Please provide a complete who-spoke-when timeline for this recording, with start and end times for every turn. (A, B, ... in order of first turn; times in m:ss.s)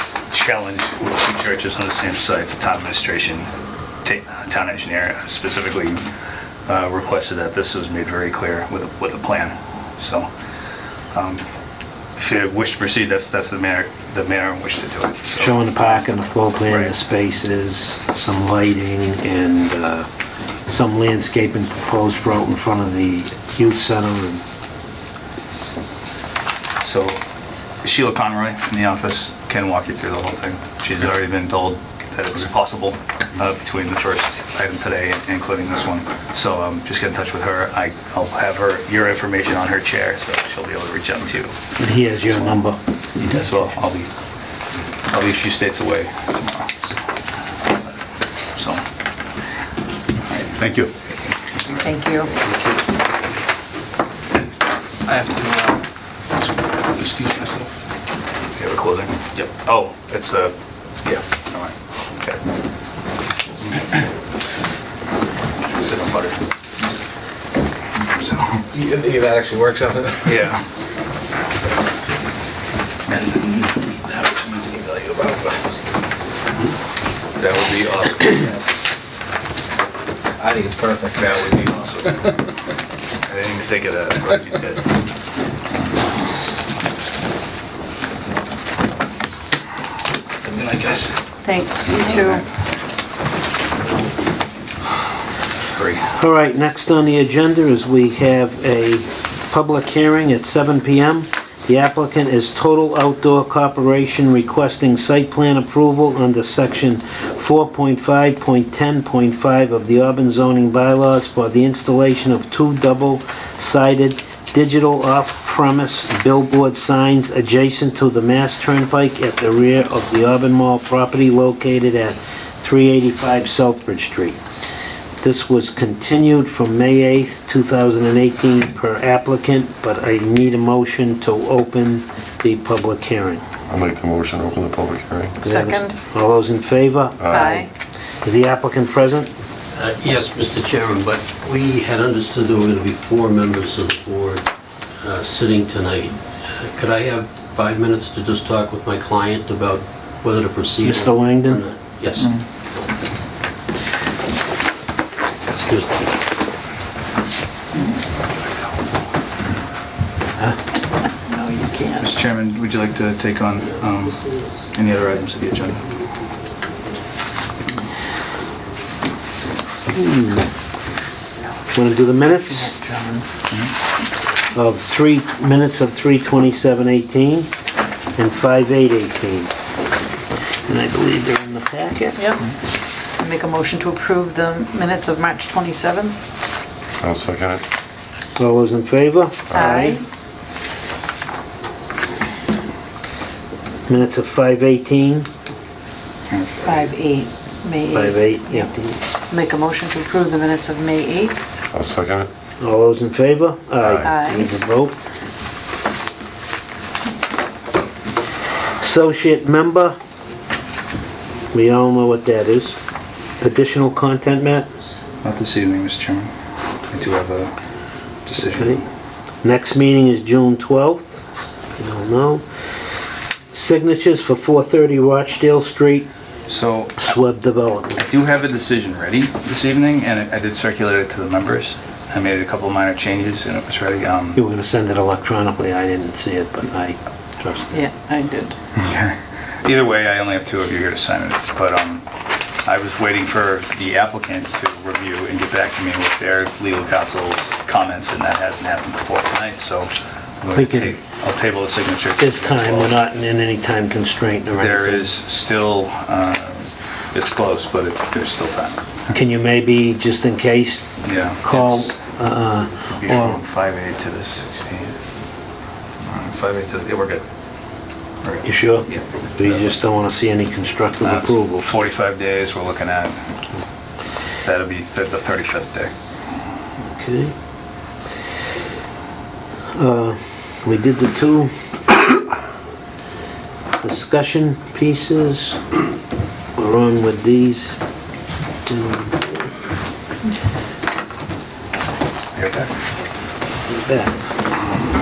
0:00.3-0:03.5 A
0:04.0-0:06.0 A
0:06.6-0:10.3 A
0:11.1-0:11.4 A
0:12.2-0:16.0 A
0:15.4-0:20.1 B
0:16.7-0:16.9 A
0:20.7-0:24.4 B
0:26.8-0:27.2 A
0:27.8-0:41.6 A
0:41.8-0:42.8 B
0:42.3-0:42.6 A
0:43.2-0:44.1 A
0:45.1-0:47.0 A
0:48.5-0:48.8 A
0:50.3-0:51.2 A
0:51.8-0:52.3 C
0:55.1-0:55.8 D
0:56.6-0:57.7 D
0:58.6-1:02.4 A
1:05.7-1:06.4 A
1:08.0-1:08.7 A
1:08.7-1:10.4 D
1:10.2-1:10.6 A
1:13.1-1:15.5 A
1:17.4-1:18.5 A
1:18.3-1:18.9 D
1:20.4-1:21.2 D
1:21.2-1:22.2 A
1:23.2-1:24.9 A
1:30.5-1:31.1 A
1:31.4-1:32.4 C
1:31.8-1:32.4 A
1:35.7-1:36.1 A
1:36.1-2:04.4 B
2:05.2-2:13.4 B
2:13.7-2:15.4 E
2:15.4-2:16.0 C
2:15.4-2:17.5 B
2:17.2-2:17.7 E
2:17.3-2:17.7 C
2:18.2-2:19.3 B
2:19.7-2:24.4 F
2:25.0-2:32.4 F
2:30.8-2:31.6 B
2:35.5-2:36.1 F
2:41.3-2:42.0 C
2:42.0-2:45.9 A
2:49.9-2:50.5 B
2:51.7-2:52.7 B
2:52.5-2:53.2 C
2:54.5-2:57.5 B
2:58.1-2:59.5 B
3:00.6-3:02.2 B
3:03.2-3:06.2 C
3:07.0-3:07.6 E
3:08.4-3:10.0 B
3:09.5-3:10.0 C
3:13.9-3:15.3 B
3:16.3-3:16.9 A
3:16.6-3:18.7 C
3:17.9-3:19.0 B
3:19.3-3:21.4 C
3:21.7-3:22.3 E
3:22.6-3:25.0 B
3:23.8-3:24.1 E
3:24.0-3:24.5 C
3:28.8-3:30.0 B
3:31.5-3:32.8 B
3:33.4-3:34.7 B
3:35.2-3:36.3 A
3:36.9-3:37.5 A
3:38.2-3:38.8 A
3:38.4-3:38.8 B
3:39.4-3:41.2 B
3:41.8-3:42.4 B
3:43.5-3:46.1 B
3:46.5-3:47.0 A
3:47.0-3:48.0 B
3:48.0-3:54.4 A
3:54.4-3:57.8 B
3:57.7-3:58.6 C
3:58.8-4:02.0 A
4:02.6-4:12.9 A
4:10.5-4:11.0 B
4:12.2-4:15.1 B
4:14.6-4:19.0 A
4:19.1-4:20.9 B
4:21.0-4:22.0 A
4:21.4-4:23.4 B
4:22.9-4:25.0 A
4:26.0-4:27.2 A
4:28.2-4:29.7 A
4:28.4-4:31.7 B
4:31.0-4:33.2 A
4:34.4-4:35.9 A
4:36.9-4:37.3 B
4:39.7-4:41.5 B
4:43.8-4:45.6 B
4:46.6-4:47.8 B
4:48.6-4:49.5 B
4:52.3-4:52.7 A
4:53.7-4:54.1 B